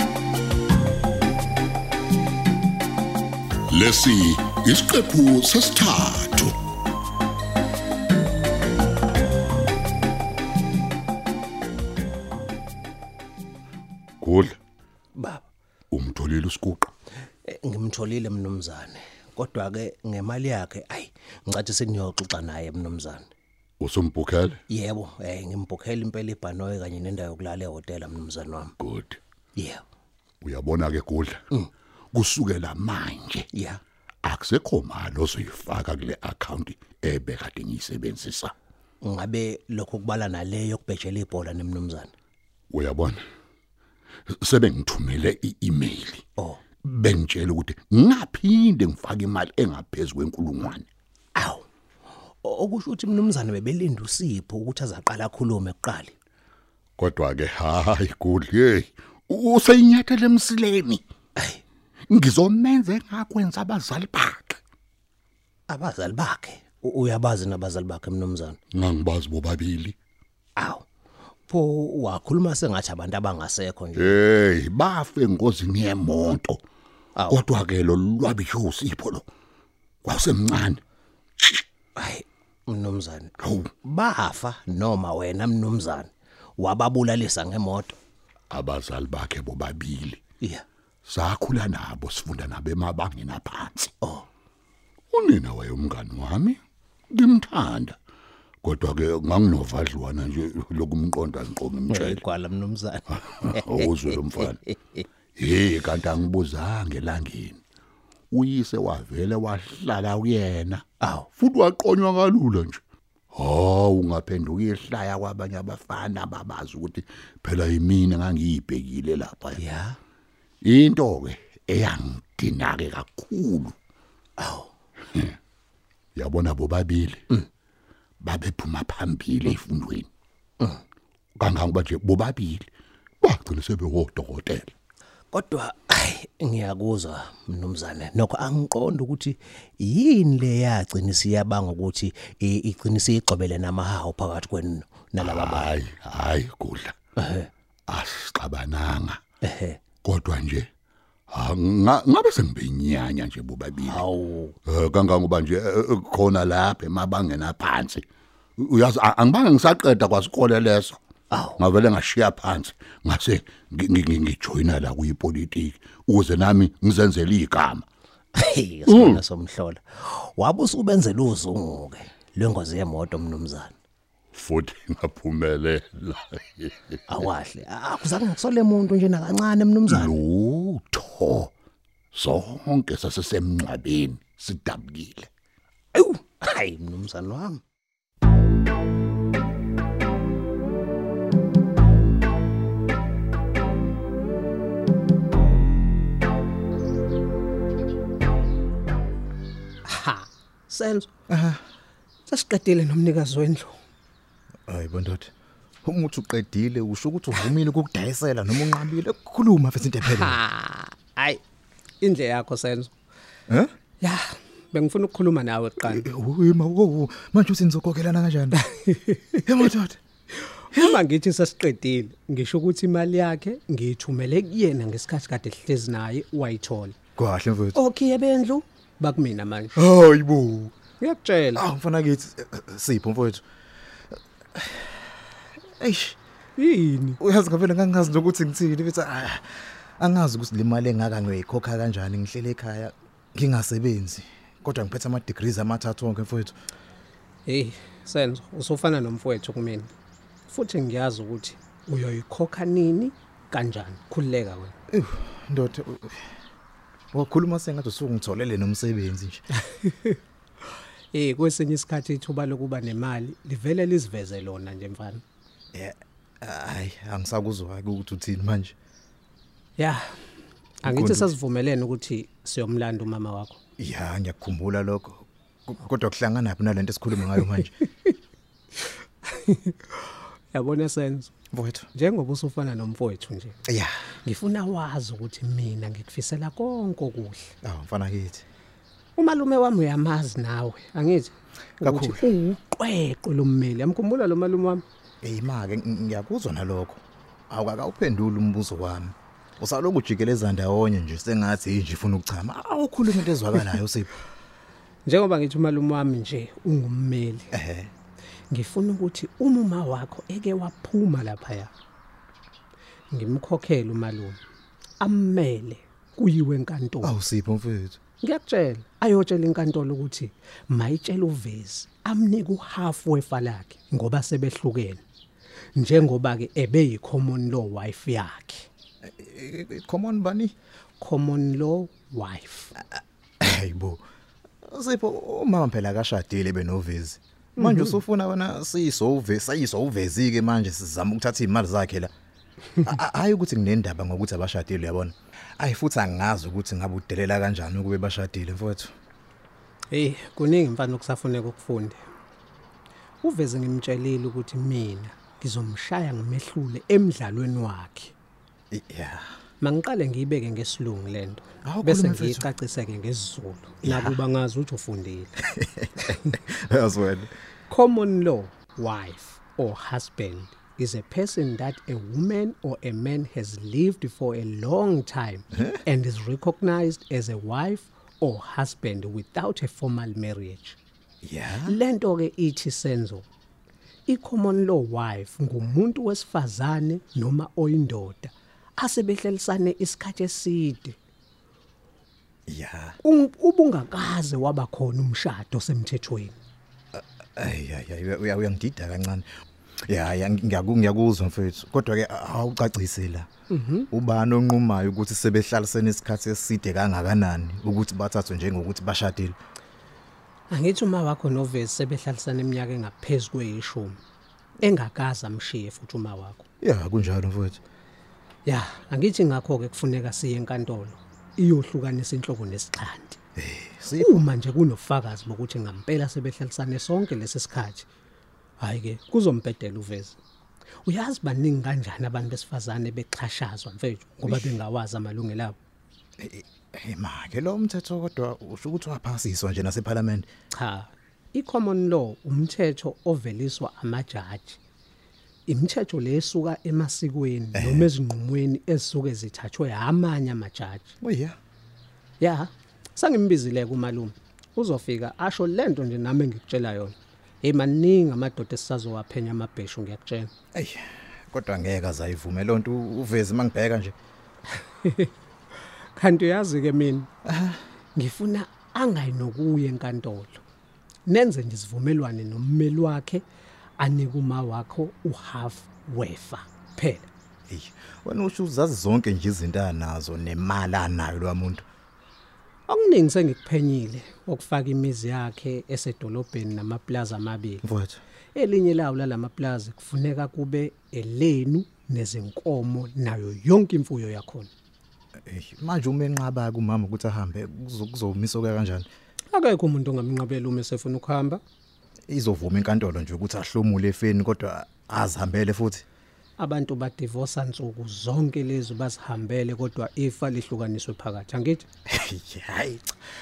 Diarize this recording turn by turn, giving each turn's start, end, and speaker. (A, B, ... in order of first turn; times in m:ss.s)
0:03.7-0:06.5 A
0:14.2-0:14.6 A
0:15.1-0:15.4 B
0:15.9-0:16.9 A
0:17.4-0:23.3 B
0:23.8-0:24.6 A
0:24.7-0:28.7 B
0:28.8-0:29.2 A
0:29.6-0:29.8 B
0:30.4-0:31.4 A
0:32.1-0:33.5 A
0:33.5-0:33.8 B
0:34.2-0:38.5 A
0:39.0-0:42.1 B
0:42.7-0:43.2 A
0:44.3-0:46.2 A
0:46.4-0:46.6 B
0:46.8-0:50.9 A
0:51.4-0:51.6 B
0:52.4-0:56.1 B
0:57.0-1:01.0 A
1:02.1-1:04.6 A
1:05.7-1:08.6 B
1:08.7-1:10.0 A
1:10.6-1:10.8 B
1:11.5-1:14.2 B
1:14.0-1:16.6 A
1:17.2-1:17.4 B
1:17.3-1:19.3 A
1:20.0-1:20.8 A
1:22.0-1:27.9 B
1:28.5-1:30.2 A
1:31.0-1:33.9 A
1:34.0-1:34.3 B
1:35.1-1:36.6 A
1:37.1-1:38.0 A
1:38.6-1:42.2 A
1:41.9-1:44.5 B
1:43.4-1:44.6 A
1:45.4-1:47.6 A
1:48.3-1:50.8 A
1:51.0-1:51.3 B
1:51.3-1:52.8 A
1:53.3-1:59.6 A
1:59.6-2:00.0 B
2:00.6-2:03.7 A
2:04.4-2:04.7 B
2:06.2-2:07.2 A
2:08.2-2:10.1 A
2:11.4-2:12.6 A
2:13.2-2:14.7 A
2:15.3-2:25.7 B
2:25.2-2:26.9 A
2:27.2-2:27.5 B
2:27.9-2:29.2 A
2:29.4-2:29.8 B
2:30.0-2:30.7 A
2:31.3-2:34.0 A
2:33.8-2:34.6 B
2:34.6-2:38.0 A
2:38.6-2:41.0 A
2:41.3-2:41.6 B
2:41.6-2:47.8 A
2:48.3-2:53.7 B
2:48.9-2:49.2 A
2:54.3-2:57.0 A
2:57.1-3:00.2 B
2:59.9-3:01.5 A
3:02.1-3:05.3 A
3:05.9-3:07.6 B
3:19.8-3:21.1 C
3:21.3-3:21.6 D
3:22.3-3:23.8 C
3:24.7-3:25.3 D
3:25.8-3:30.4 D
3:30.1-3:31.4 C
3:32.0-3:32.9 C
3:34.0-3:36.1 C
3:35.8-3:38.6 D
3:38.5-3:39.6 C
3:39.4-3:40.0 D
3:40.5-3:47.0 C
3:47.2-3:47.8 D
3:47.7-3:49.8 C
3:49.7-3:50.7 D
3:51.0-3:51.6 C
3:51.5-3:53.4 D
3:54.5-3:55.1 D
3:55.8-3:56.2 D
3:56.6-3:57.2 C
3:57.2-4:06.5 D
4:07.4-4:09.9 C
4:10.5-4:14.8 C
4:14.9-4:16.2 D
4:17.1-4:19.4 D
4:19.5-4:20.2 C
4:21.1-4:25.2 C
4:25.7-4:28.7 D
4:29.8-4:30.1 C
4:30.8-4:31.3 D
4:30.8-4:33.6 C
4:33.8-4:37.7 D
4:39.2-4:41.3 C
4:41.5-4:41.9 D
4:41.9-4:43.6 C
4:43.7-4:43.9 D
4:44.2-4:47.5 C
4:47.6-4:48.4 D
4:49.2-4:54.8 C
4:51.8-4:52.3 D
4:55.2-5:04.2 D
5:05.0-5:07.5 C
5:07.5-5:07.9 D
5:08.5-5:11.7 C
5:13.1-5:14.4 C
5:15.0-5:17.1 C
5:17.0-5:18.0 D
5:18.2-5:25.0 C
5:25.8-5:28.7 C
5:29.0-5:30.5 D
5:31.0-5:32.7 C
5:33.4-5:34.0 D
5:34.6-5:42.1 D
5:37.6-5:37.9 C
5:42.8-5:48.9 D
5:49.9-5:52.0 C
5:53.2-5:58.1 C
5:58.7-5:59.3 D
5:59.6-6:05.3 C
6:01.6-6:02.5 D
6:03.8-6:04.2 D
6:05.4-6:07.3 D
6:07.7-6:20.8 C
6:21.2-6:21.8 D
6:21.6-6:23.3 C
6:24.1-6:31.0 C
6:32.5-6:33.0 D
6:33.0-6:36.4 C
6:36.9-6:39.2 D
6:39.9-6:43.3 D
6:43.5-6:43.9 C
6:43.9-6:49.4 D
6:50.5-6:54.0 C
6:54.6-6:56.4 C
6:56.6-6:57.6 D
6:58.4-7:03.2 C
7:03.4-7:04.2 D
7:04.0-7:07.9 C
7:08.6-7:10.2 C
7:10.8-7:15.6 C
7:14.2-7:14.6 D
7:16.2-7:20.3 D
7:20.5-7:24.6 C
7:25.5-7:30.9 C
7:27.5-7:27.9 D
7:31.0-7:31.4 D
7:32.2-7:40.3 C
7:40.5-7:43.9 D
7:44.5-7:45.1 C
7:46.0-7:47.1 C
7:47.2-7:47.6 D
7:47.9-7:50.4 C
7:51.1-7:53.2 C
7:53.8-7:57.1 C
7:57.5-8:01.6 D
8:02.7-8:07.6 C
8:07.6-8:08.0 D
8:08.3-8:14.5 C
8:15.2-8:18.9 D
8:19.3-8:21.4 C
8:22.1-8:25.8 D
8:26.4-8:31.6 C
8:31.9-8:32.9 D